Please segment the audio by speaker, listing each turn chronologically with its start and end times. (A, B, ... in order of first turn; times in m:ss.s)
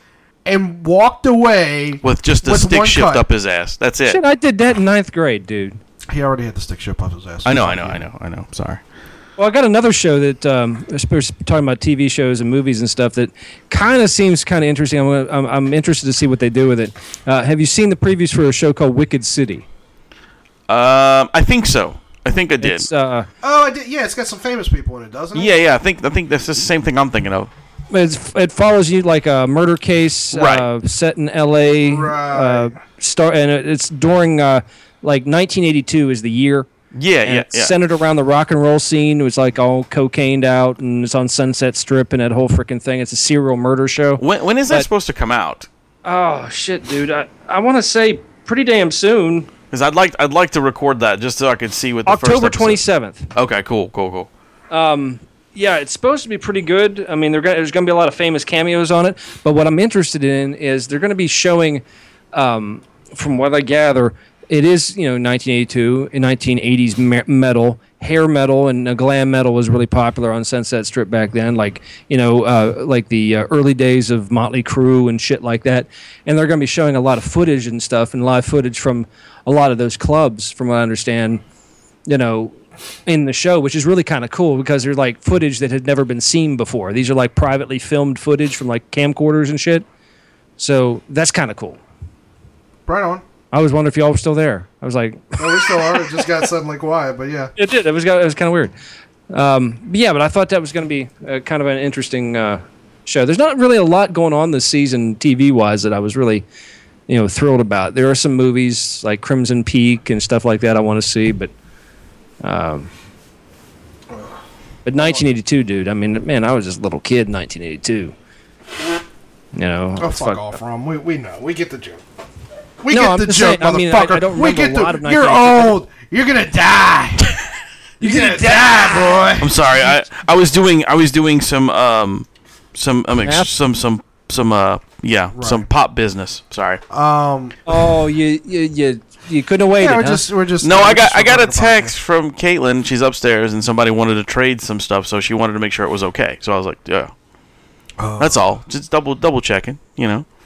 0:00.4-0:03.2 A
0:02.0-0:04.2 B
0:04.1-0:05.8 C
0:06.1-0:08.0 A
0:07.4-0:08.8 B
0:09.4-0:19.6 C
0:20.7-0:22.9 B
0:22.6-0:23.3 C
0:23.4-0:25.5 A
0:25.3-0:27.5 B
0:27.9-0:36.7 C
0:30.3-0:30.6 B
0:31.8-0:32.8 A
0:36.9-0:37.8 B
0:37.2-0:44.8 C
0:44.2-0:45.7 B
0:46.0-0:49.5 C
0:49.7-0:52.8 B
0:52.1-0:53.3 C
0:53.3-0:54.3 B
0:54.7-1:21.4 C
1:22.1-1:29.8 C
1:30.6-1:31.8 C
1:32.8-1:33.2 A
1:33.5-1:36.3 C
1:35.4-1:37.5 A
1:37.6-1:38.7 C
1:39.3-1:46.4 C
1:47.1-1:51.5 C
1:52.4-1:52.9 C
1:54.8-1:58.1 C
1:59.5-2:00.5 C
2:00.0-2:02.0 A
2:02.8-2:07.3 A
2:02.9-2:05.8 C
2:08.0-2:09.0 C
2:08.0-2:09.6 A
2:09.4-2:16.8 B
2:13.2-2:13.5 C
2:15.3-2:15.7 A
2:16.9-2:17.7 A
2:17.7-2:20.2 C
2:19.8-2:21.9 A
2:20.6-2:27.1 B
2:28.0-2:28.4 A
2:28.2-2:30.2 B